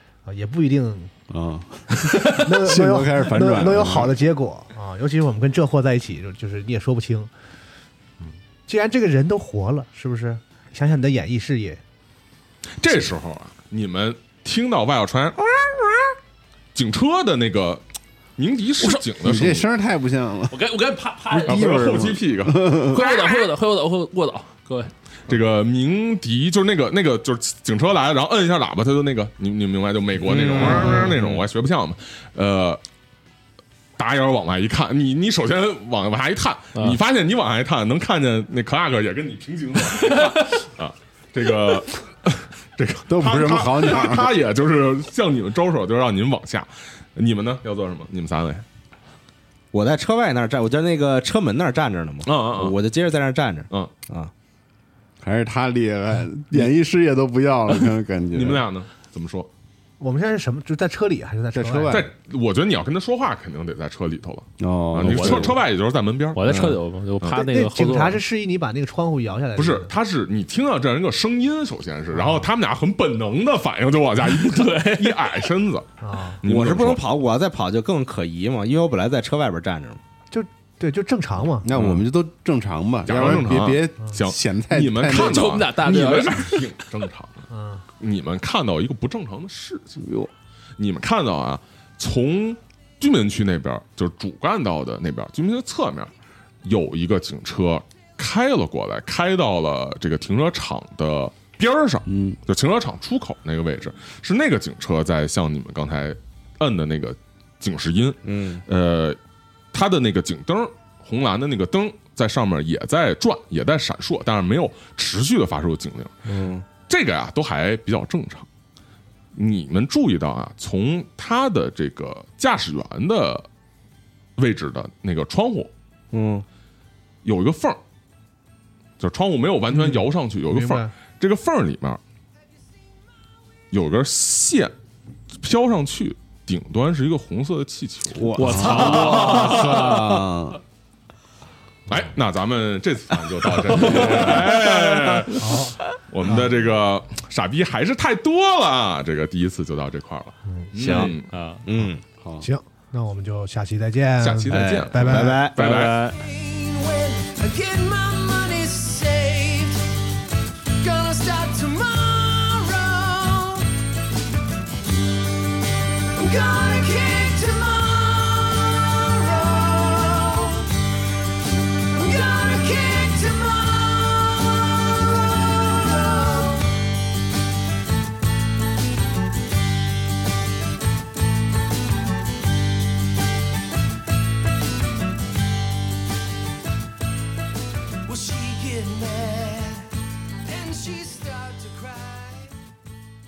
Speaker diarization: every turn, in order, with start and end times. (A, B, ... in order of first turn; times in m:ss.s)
0:00.2-0:01.1 A
0:01.3-0:04.2 B
0:02.2-0:07.3 A
0:08.2-0:11.8 A
0:12.8-0:16.1 C
0:16.7-0:17.8 C
0:18.4-0:19.6 C
0:19.2-0:20.6 B
0:20.5-0:21.8 D
0:21.3-0:23.1 B
0:21.4-0:22.7 C
0:22.8-0:24.9 D
0:25.3-0:32.8 C
0:30.2-0:31.4 E
0:30.7-0:31.0 D
0:34.0-0:48.6 C
0:43.1-0:44.3 B
0:49.7-0:54.3 E
0:52.2-0:52.8 C
0:55.2-0:58.6 B
0:58.3-0:59.5 C
1:00.0-1:02.0 A
1:01.5-1:02.1 B
1:01.9-1:06.6 C
1:04.6-1:05.6 B
1:05.0-1:05.6 D
1:06.3-1:08.2 D
1:06.5-1:06.8 E
1:07.3-1:09.9 A
1:09.6-1:15.9 C
1:12.1-1:12.5 A
1:14.2-1:15.5 D
1:16.0-1:16.4 A
1:16.4-1:17.0 C
1:16.4-1:20.0 E
1:20.3-1:21.7 A
1:21.6-1:25.6 B
1:21.7-1:22.0 C
1:23.0-1:27.4 C
1:25.0-1:26.7 D
1:27.5-1:27.8 A
1:28.0-1:29.9 C
1:30.0-1:30.3 B
1:30.8-1:36.1 C
1:36.6-1:49.2 C
1:42.1-1:42.4 B
1:48.2-1:48.6 E
1:49.7-1:56.1 C
1:56.2-1:56.6 E
1:56.7-1:58.5 C
1:59.3-2:03.5 C
2:04.4-2:05.7 C
2:06.1-2:06.4 E
2:07.2-2:07.8 C
2:09.0-2:12.0 C
2:09.7-2:10.9 A
2:13.7-2:14.7 C
2:15.4-2:19.9 C
2:18.2-2:20.6 E
2:18.3-2:20.2 D
2:18.6-2:20.5 B
2:21.9-2:31.3 C
2:23.8-2:24.3 E
2:23.9-2:24.3 D
2:25.4-2:26.5 A
2:30.5-2:30.7 A
2:30.7-2:32.0 E
2:30.8-2:31.6 D
2:32.2-2:32.5 B
2:32.4-2:35.5 A
2:34.2-2:36.0 C
2:34.5-2:35.8 E
2:35.6-2:36.2 D
2:36.0-2:40.0 F
2:40.8-2:43.7 F
2:45.4-2:50.8 F
2:51.9-2:56.9 F
3:08.0-3:12.6 F